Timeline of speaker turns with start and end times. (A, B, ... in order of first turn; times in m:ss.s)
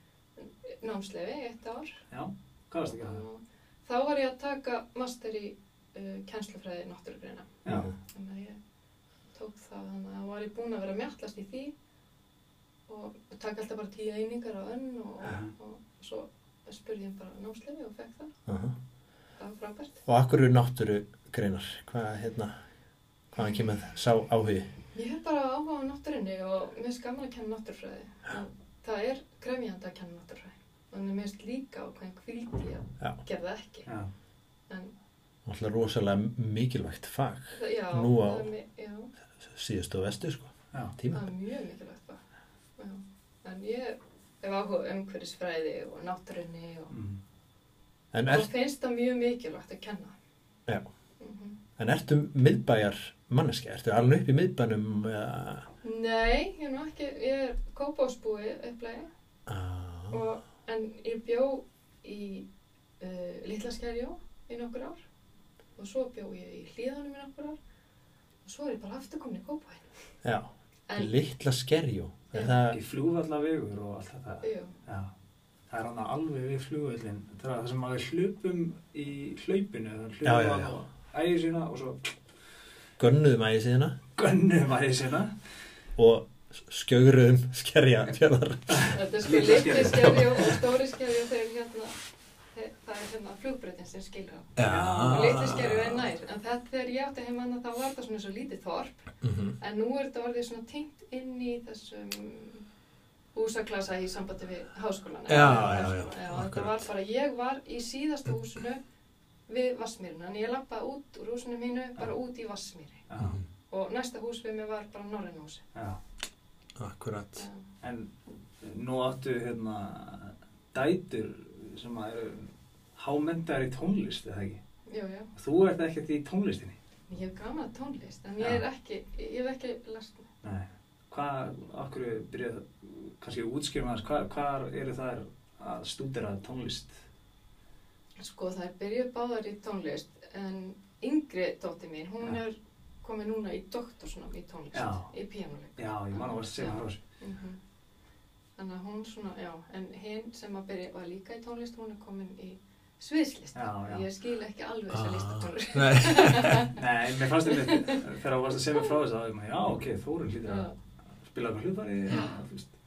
0:00.4-0:02.0 A
0:02.1-0:03.2 B
0:02.9-0:08.6 A
0:07.6-0:07.9 B
0:09.3-0:11.7 A
0:12.9-0:18.3 A
0:18.5-0:18.8 C
0:19.4-0:20.0 A
0:20.1-0:22.5 C
0:23.3-0:24.7 C
0:24.9-0:33.9 A
0:35.5-0:38.5 C
0:37.5-0:39.1 A
0:39.5-0:41.3 C
0:41.1-0:42.2 A
0:42.8-0:46.9 A
0:46.9-0:47.2 B
0:48.1-0:48.5 C
0:48.3-0:50.1 A
0:51.2-0:51.6 A
0:51.8-0:55.7 C
0:55.8-0:59.1 A
0:59.5-1:00.2 C
1:00.1-1:02.5 A
1:03.0-1:05.0 A
1:05.8-1:07.6 A
1:08.4-1:09.9 A
1:10.2-1:12.8 C
1:10.9-1:11.2 A
1:12.3-1:12.6 A
1:12.7-1:15.1 B
1:14.4-1:14.7 A
1:15.7-1:22.1 B
1:20.2-1:20.8 C
1:23.0-1:24.0 C
1:24.2-1:25.3 B
1:26.0-1:30.6 C
1:28.7-1:30.1 B
1:28.9-1:32.0 A
1:32.5-1:39.0 A
1:34.6-1:36.0 C
1:34.6-1:35.4 B
1:39.2-1:39.6 C
1:39.6-1:42.6 A
1:43.3-1:48.8 A
1:45.3-1:46.9 C
1:49.5-1:53.0 A
1:53.1-1:53.4 B
1:53.7-1:55.6 A
1:56.8-1:57.5 C
1:57.4-1:57.6 A
1:57.8-1:58.1 B
1:58.6-2:04.6 B
2:04.9-2:05.3 A
2:05.4-2:06.8 B
2:07.1-2:10.3 A
2:10.4-2:17.0 B
2:18.2-2:27.6 A
2:24.7-2:25.1 B
2:25.8-2:27.0 B
2:28.6-2:36.8 A
2:33.6-2:34.0 B
2:34.9-2:36.7 C
2:36.7-2:40.7 B
2:37.5-2:38.0 A
2:40.4-2:40.8 A
2:41.2-2:42.7 B
2:42.1-2:42.4 A